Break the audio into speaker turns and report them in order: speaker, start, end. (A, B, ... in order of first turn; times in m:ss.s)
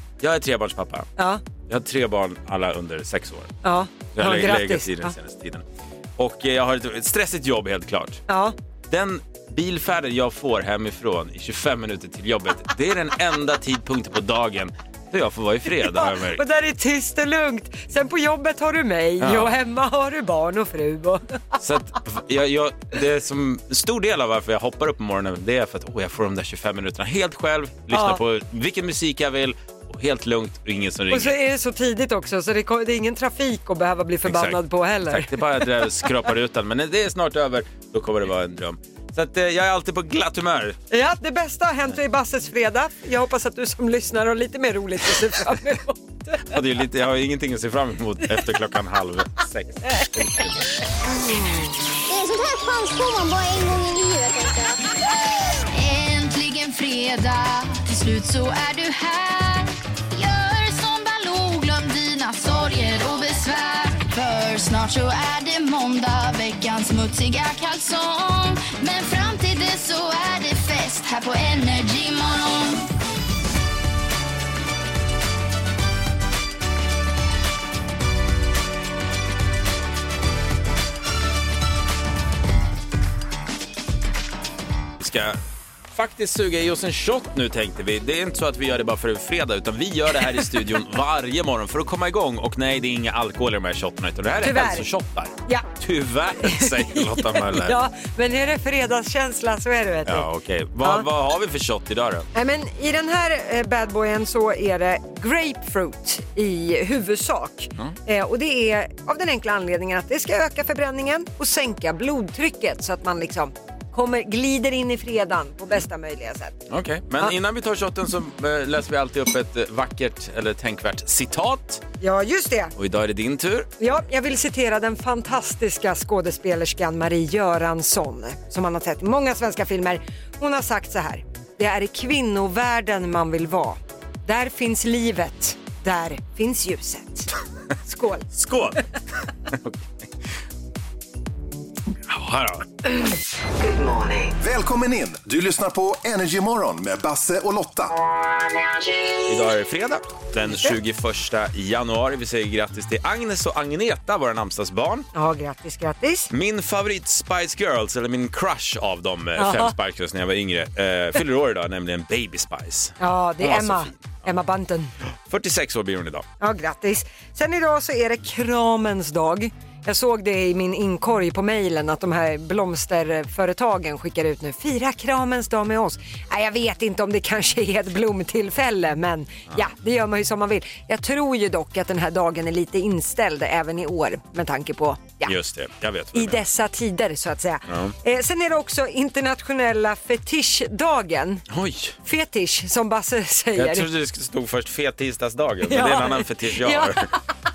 0:00.2-0:01.1 A
0:01.2-0:01.4 B
0:01.7-0:03.6 A
0:03.6-0:05.1 B
0:04.1-0:05.6 A
0:06.2-0:08.2 A
0:08.3-0:08.5 B
0:08.9-0:16.4 A
0:15.7-0:21.4 B
0:19.2-0:19.5 A
0:21.6-0:31.4 A
0:27.9-0:28.2 B
0:31.1-0:35.7 B
0:34.3-0:34.6 A
0:35.1-0:40.8 A
0:40.9-0:46.5 B
0:46.5-0:50.7 A
0:52.1-0:54.9 C
0:55.7-1:12.9 D
1:25.0-1:25.4 A
1:25.9-1:37.8 A
1:34.4-1:34.9 B
1:36.4-1:40.3 B
1:40.0-1:42.3 A
1:42.3-1:56.6 B
1:56.7-2:01.8 A
2:02.0-2:02.7 B
2:02.8-2:03.7 A
2:03.8-2:17.3 B
2:17.8-2:18.3 B
2:18.3-2:18.8 A
2:19.5-2:19.9 A
2:22.1-2:22.7 A
2:24.2-2:28.0 E
2:29.3-2:35.1 A
2:35.1-2:36.3 B
2:36.3-2:44.3 A
2:39.4-2:39.7 B
2:43.0-2:44.9 B
2:45.3-2:46.2 A
2:46.4-3:05.3 B
3:05.2-3:06.4 A
3:06.2-3:11.5 B
3:07.7-3:08.0 A
3:11.5-3:12.0 A
3:12.0-3:13.9 B
3:13.6-3:17.1 A
3:15.7-3:17.1 B